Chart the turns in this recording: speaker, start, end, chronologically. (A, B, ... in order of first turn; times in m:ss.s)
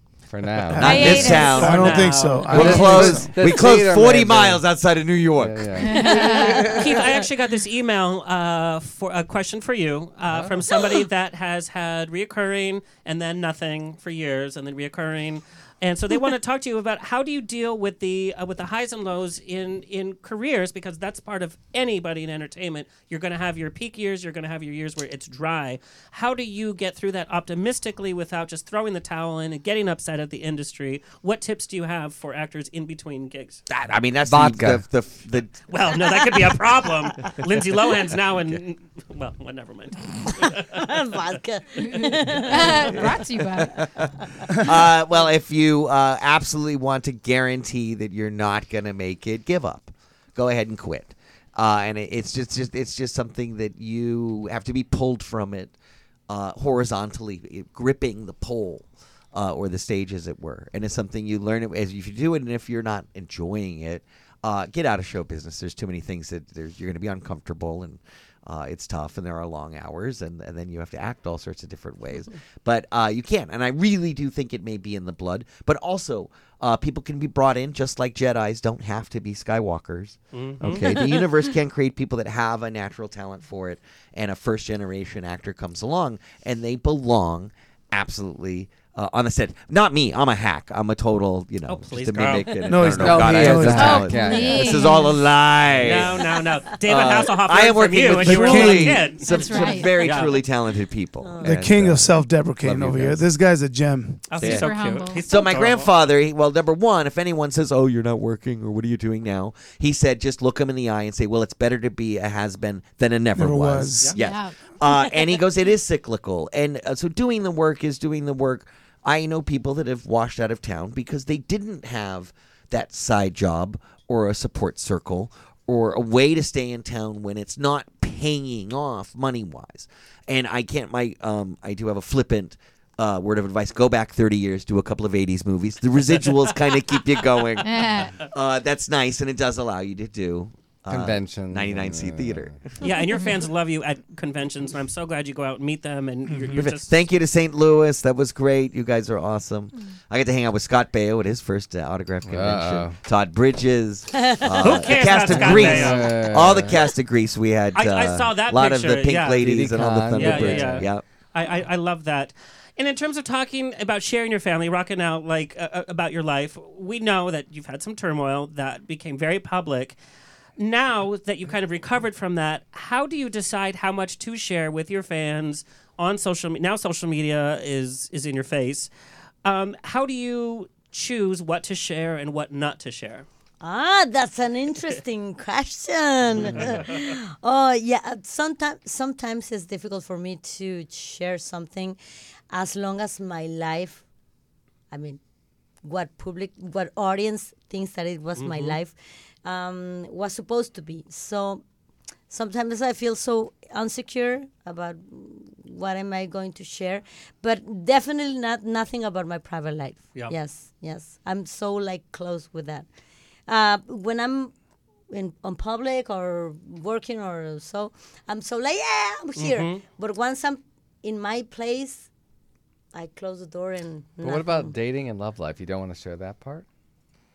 0:00.3-0:01.3 A
0:00.7-0:03.4 B
0:00.8-0:01.9 C
0:00.8-0:05.8 D
0:01.1-0:03.1 E
0:02.5-0:04.6 A
0:05.4-0:06.1 A
0:05.8-0:06.7 C
0:05.9-0:07.2 F
0:06.6-0:33.6 E
0:10.3-0:10.6 A
0:33.7-0:35.7 D
0:34.2-0:34.9 A
0:35.7-0:40.8 E
0:40.5-0:43.1 F
0:42.5-0:43.9 C
0:44.6-0:55.7 D
0:56.3-1:36.3 D
1:20.3-1:21.0 E
1:20.7-1:21.3 F
1:31.7-1:32.7 E
1:32.6-1:34.1 B
1:33.0-1:35.0 A
1:33.7-1:35.2 C
1:35.8-1:40.4 E
1:36.2-1:36.7 F
1:36.8-1:43.2 D
1:38.2-1:39.2 B
1:39.2-1:40.1 C
1:41.2-1:41.6 F
1:41.4-1:44.4 B
1:44.3-1:45.9 E
1:44.4-1:44.6 D
1:44.4-1:45.2 C
1:45.2-2:22.8 D
1:53.4-1:54.2 B
1:54.2-1:54.6 C
1:54.9-1:55.2 F
2:17.6-2:18.2 C
2:20.9-2:22.6 A
2:22.8-2:26.9 E
2:26.3-2:26.6 B
2:26.5-2:41.0 D
2:32.2-2:33.0 A
2:34.1-2:35.0 F
2:34.6-2:36.2 E
2:35.3-2:36.8 A
2:37.7-2:39.4 E
2:39.4-2:40.9 A
2:40.1-2:50.0 E
2:50.6-2:58.9 E
2:59.4-3:03.2 E
3:03.6-3:12.0 F
3:06.4-3:07.1 E
3:12.5-3:14.0 F
3:14.9-3:15.2 F
3:15.8-3:21.6 F
3:18.4-3:18.8 E
3:22.3-3:32.8 F
3:33.5-3:34.5 F
3:35.1-3:42.1 F
3:39.4-3:39.8 E
3:42.9-3:44.7 F
3:44.2-3:46.6 A